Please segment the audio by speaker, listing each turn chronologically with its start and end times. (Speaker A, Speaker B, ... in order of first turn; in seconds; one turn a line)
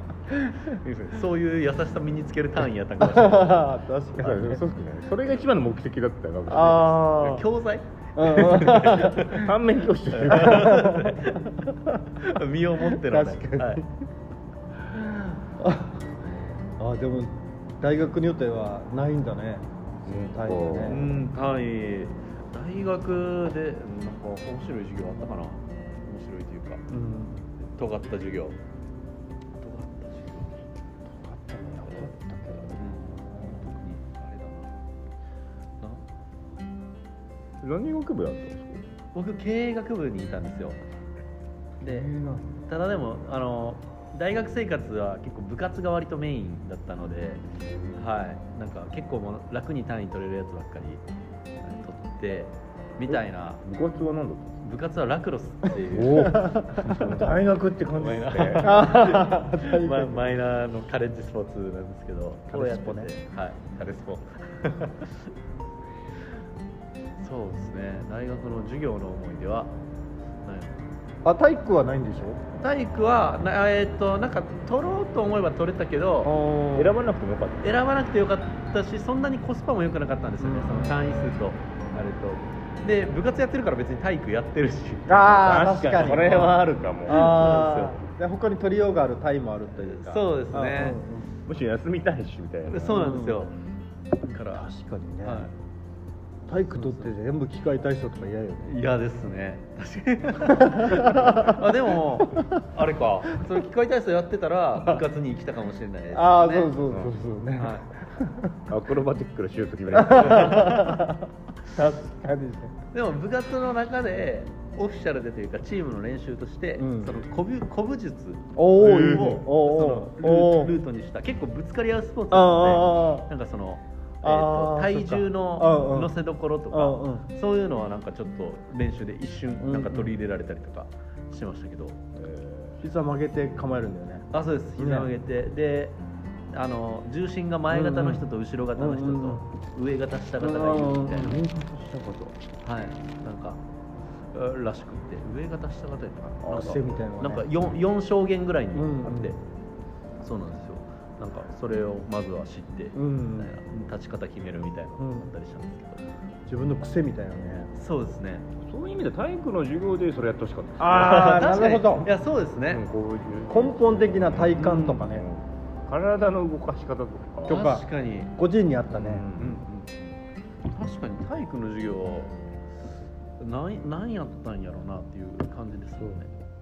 Speaker A: 0.6-3.8
Speaker B: 3.0-4.6
Speaker C: 4.2-7.4
Speaker B: 6.5-7.4
Speaker A: 7.2-9.4
Speaker B: 8.2-9.5
Speaker C: 8.4-11.1
Speaker A: 10.1-13.8
Speaker B: 10.3-12.3
Speaker B: 12.8-13.9
Speaker B: 14.8-16.1
Speaker B: 16.8-21.1
Speaker C: 20.1-21.1
Speaker A: 20.9-26.8
Speaker B: 26.9-27.4
Speaker A: 27.6-28.6
Speaker A: 29.6-30.7
Speaker B: 31.1-33.7
Speaker A: 32.5-34.7
Speaker C: 37.6-38.9
Speaker A: 39.1-40.8
Speaker B: 41.8-42.7
Speaker A: 41.8-42.1
Speaker A: 42.7-47.4
Speaker C: 47.6-48.0
Speaker A: 48.0-51.0
Speaker A: 51.6-53.6
Speaker C: 53.1-54.6
Speaker A: 54.6-57.3
Speaker B: 55.9-57.4
Speaker C: 55.9-58.8
Speaker A: 57.9-65.3
Speaker B: 58.6-60.2
Speaker B: 62.5-63.1
Speaker A: 67.2-69.7
Speaker A: 70.4-70.8
Speaker B: 71.2-72.4
Speaker A: 72.6-76.3
Speaker B: 76.2-77.0
Speaker C: 76.7-77.7
Speaker A: 77.6-88.0
Speaker B: 80.4-81.0
Speaker B: 85.1-86.5
Speaker C: 85.4-87.6
Speaker B: 87.0-91.3
Speaker A: 89.8-91.0
Speaker C: 91.5-93.0
Speaker A: 92.7-93.5
Speaker B: 92.8-93.4
Speaker A: 94.2-94.7
Speaker B: 94.5-95.5
Speaker A: 95.2-95.5
Speaker B: 96.5-98.7
Speaker A: 96.7-97.1
Speaker A: 98.6-106.8
Speaker B: 100.4-101.7
Speaker B: 102.2-102.5
Speaker B: 106.1-108.6
Speaker C: 106.9-107.1
Speaker A: 107.6-107.9
Speaker C: 108.7-110.9
Speaker B: 109.9-112.8
Speaker A: 112.9-132.0
Speaker B: 116.8-117.1
Speaker B: 118.5-120.8
Speaker C: 118.8-119.4
Speaker B: 122.3-123.3
Speaker B: 124.2-126.1
Speaker B: 126.7-127.3
Speaker B: 129.6-130.1
Speaker C: 132.2-132.8
Speaker B: 132.8-135.1
Speaker A: 134.3-136.0
Speaker A: 136.5-141.4
Speaker B: 137.7-138.2
Speaker B: 138.8-139.4
Speaker B: 140.4-141.5
Speaker C: 141.2-142.3
Speaker A: 142.6-143.6
Speaker A: 144.3-149.4
Speaker C: 146.4-146.8
Speaker B: 146.5-147.5
Speaker B: 148.7-149.3
Speaker A: 150.2-156.0
Speaker B: 152.9-153.5
Speaker B: 155.0-155.3
Speaker B: 156.5-157.7
Speaker A: 157.7-158.5
Speaker C: 158.6-161.4
Speaker B: 160.8-162.1
Speaker A: 160.9-162.8
Speaker C: 162.7-167.6
Speaker B: 163.5-165.2
Speaker A: 164.5-165.1
Speaker A: 167.5-168.3
Speaker B: 167.5-169.2
Speaker C: 169.0-169.6
Speaker A: 169.3-170.0
Speaker A: 170.7-172.3
Speaker A: 173.4-176.4